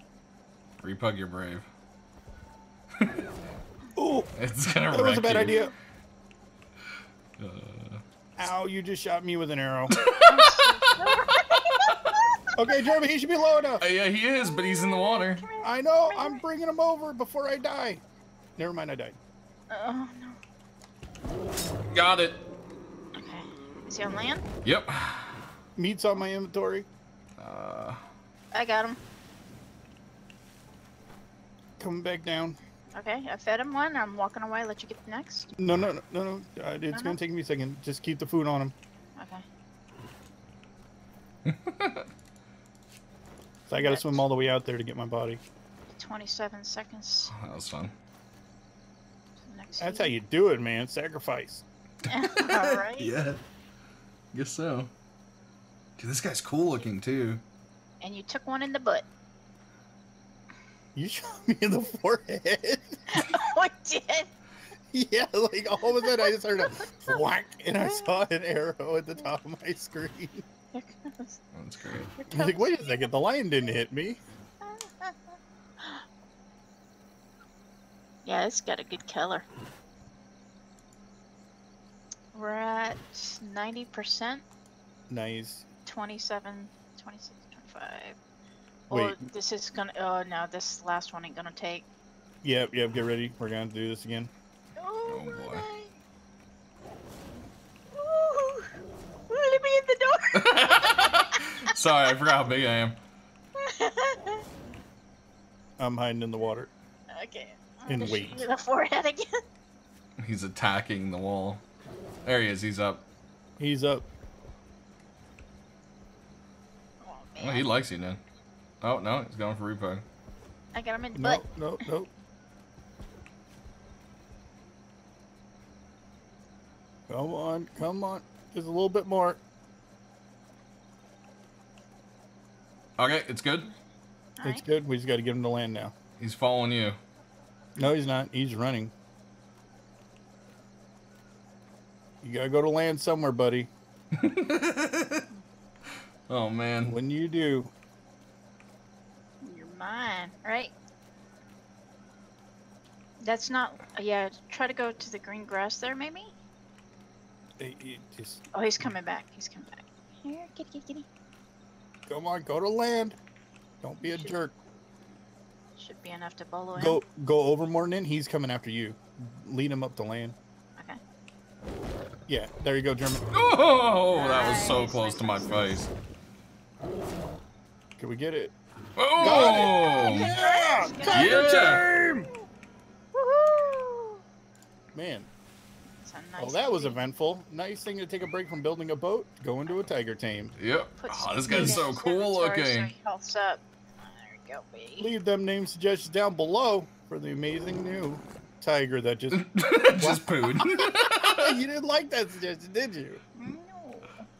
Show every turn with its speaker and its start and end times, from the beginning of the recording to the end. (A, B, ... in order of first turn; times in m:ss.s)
0:00.8-0:01.7 A
0:03.9-0:04.3 B
0:04.4-0:05.6 A
0:04.9-0:05.7 B
0:07.4-0:08.0 A
0:08.4-0:10.0 B
0:09.9-0:10.6 A
0:10.2-0:12.6 C
0:12.6-0:13.8 B
0:13.8-0:15.4 A
0:14.4-0:16.4 C
0:15.6-0:18.0 B
0:18.6-0:19.2 B
0:19.7-0:20.4 C
0:21.9-0:22.4 A
0:23.1-0:24.4 C
0:24.6-0:25.4 A
0:25.8-0:26.9 B
0:27.4-0:28.0 A
0:28.5-0:29.0 C
0:31.8-0:32.6 B
0:32.9-0:35.5 C
0:35.5-0:38.7 B
0:36.9-0:37.2 C
0:39.2-0:39.4 C
0:41.4-0:42.0 A
0:43.7-0:45.4 B
0:43.8-0:44.2 C
0:45.9-0:47.3 C
0:47.3-0:47.9 A
0:49.4-0:50.2 C
0:49.8-0:51.6 B
0:52.1-0:53.1 C
0:52.1-0:53.4 A
0:54.3-0:54.9 A
0:56.0-0:57.4 A
0:58.0-0:59.1 C
1:00.9-1:03.0 B
1:03.1-1:04.3 C
1:04.9-1:10.4 B
1:06.0-1:06.9 C
1:10.7-1:11.4 C
1:11.5-1:12.1 A
1:12.1-1:13.0 C
1:12.3-1:14.2 B
1:14.6-1:16.0 C
1:18.2-1:19.4 C
1:22.3-1:24.4 C
1:25.1-1:25.6 B
1:25.8-1:28.2 C
1:28.9-1:31.9 C
1:28.9-1:29.2 B
1:32.4-1:34.3 B
1:34.8-1:35.9 C
1:35.0-1:35.6 A
1:37.9-1:38.7 C
1:39.3-1:40.8 C
1:40.3-1:43.0 A
1:43.6-1:44.4 C
1:45.8-1:46.7 B
1:47.1-1:49.2 C
1:47.9-1:48.5 B
1:50.2-1:51.6 A
1:52.2-1:53.0 A
1:53.6-1:54.0 B
1:57.0-1:57.7 C
1:57.4-1:58.2 A
1:58.8-2:00.0 A
2:00.7-2:01.4 C
2:01.1-2:02.1 B
2:07.1-2:09.4 B
2:13.0-2:13.7 A
2:14.4-2:14.6 C
2:14.4-2:15.9 B
2:16.2-2:17.0 A
2:17.8-2:18.9 B
2:22.2-2:23.7 B
2:24.2-2:25.2 A
2:26.3-2:27.0 A
2:26.8-2:27.7 B
2:29.4-2:30.7 C
2:33.2-2:36.3 C
2:37.6-2:38.4 B
2:38.5-2:41.1 C
2:42.1-2:43.2 B
2:43.8-2:44.5 B
2:44.0-2:44.3 C
2:45.7-2:47.0 C
2:46.7-2:50.4 B
2:52.3-2:53.2 B
2:53.3-2:55.9 A
2:54.1-2:55.8 C
2:58.0-2:58.5 B
2:59.0-3:00.3 A
2:59.2-3:02.3 B
2:59.2-3:01.9 C
3:01.1-3:01.8 A
3:03.1-3:04.2 C
3:04.9-3:05.3 B
3:05.9-3:07.0 C
3:06.4-3:10.5 B
3:10.6-3:12.9 A
3:11.0-3:15.1 C
3:11.5-3:11.9 B
3:15.0-3:20.3 B
3:19.3-3:21.5 A
3:21.1-3:23.2 B
3:23.4-3:24.2 C